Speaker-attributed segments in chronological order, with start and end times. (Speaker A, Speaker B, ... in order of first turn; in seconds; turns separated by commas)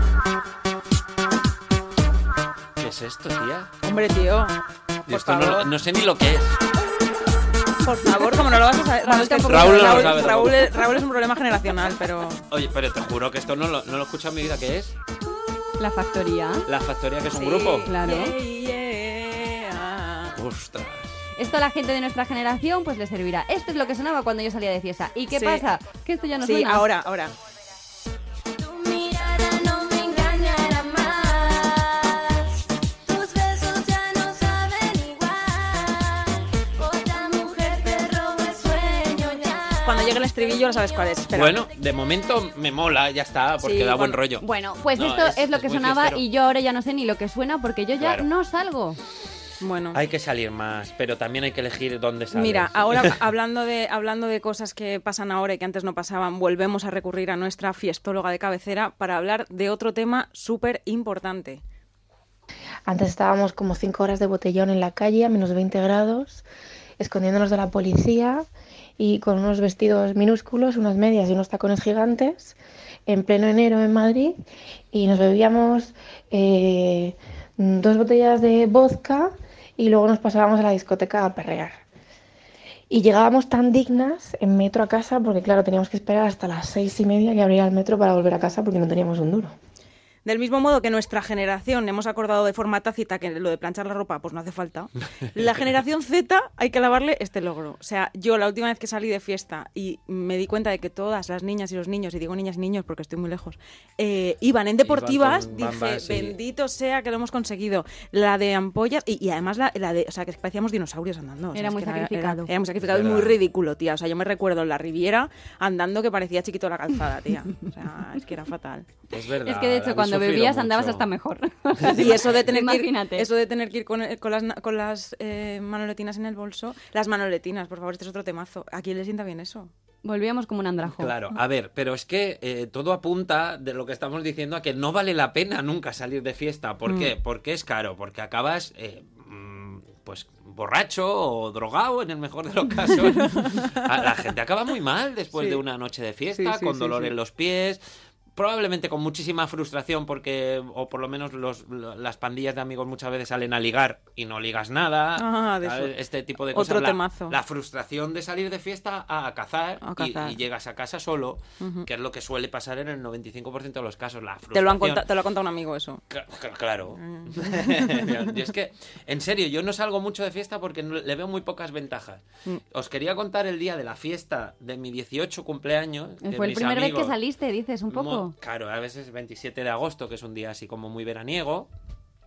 Speaker A: 2.8-3.7, Speaker B: 3.8-5.7, Speaker A: 5.1-6.6, Speaker B: 7.8-12.4, Speaker C: 9.0-10.5, Speaker A: 9.5-10.7, Speaker A: 12.5-14.9, Speaker C: 15.8-16.7, Speaker A: 16.7-17.9, Speaker B: 17.3-20.4, Speaker C: 17.9-18.4, Speaker A: 20.4-21.1, Speaker C: 21.4-26.9, Speaker B: 25.3-25.7, Speaker B: 26.4-27.3, Speaker D: 28.6-41.2, Speaker B: 39.8-41.6, Speaker A: 41.3-46.2, Speaker B: 43.6-44.2, Speaker C: 44.4-49.0, Speaker A: 48.0-48.3, Speaker B: 49.6-50.0, Speaker A: 49.9-53.2, Speaker B: 52.3-61.6, Speaker E: 62.9-66.4, Speaker E: 67.0-68.5, Speaker E: 69.0-74.3, Speaker E: 74.9-81.8, Speaker E: 82.9-89.5, Speaker B: 90.2-118.9, Speaker A: 104.8-106.4, Speaker C: 111.5-112.5, Speaker A: 112.8-113.4, Speaker A: 119.1-121.1, Speaker C: 119.4-123.3, Speaker A: 121.8-122.3, Speaker B: 121.9-129.7, Speaker C: 130.0-131.1, Speaker A: 130.8-147.8, Speaker B: 143.4-143.8, Speaker B: 145.3-145.6, Speaker B: 146.3-147.1, Speaker A: 148.4-165.1, Speaker B: 155.2-155.9, Speaker B: 156.5-157.4, Speaker B: 159.8-160.4, Speaker B: 161.6-161.9, Speaker B: 164.5-166.0, Speaker A: 166.1-177.2, Speaker B: 166.9-168.2, Speaker C: 176.2-178.3, Speaker A: 177.9-181.7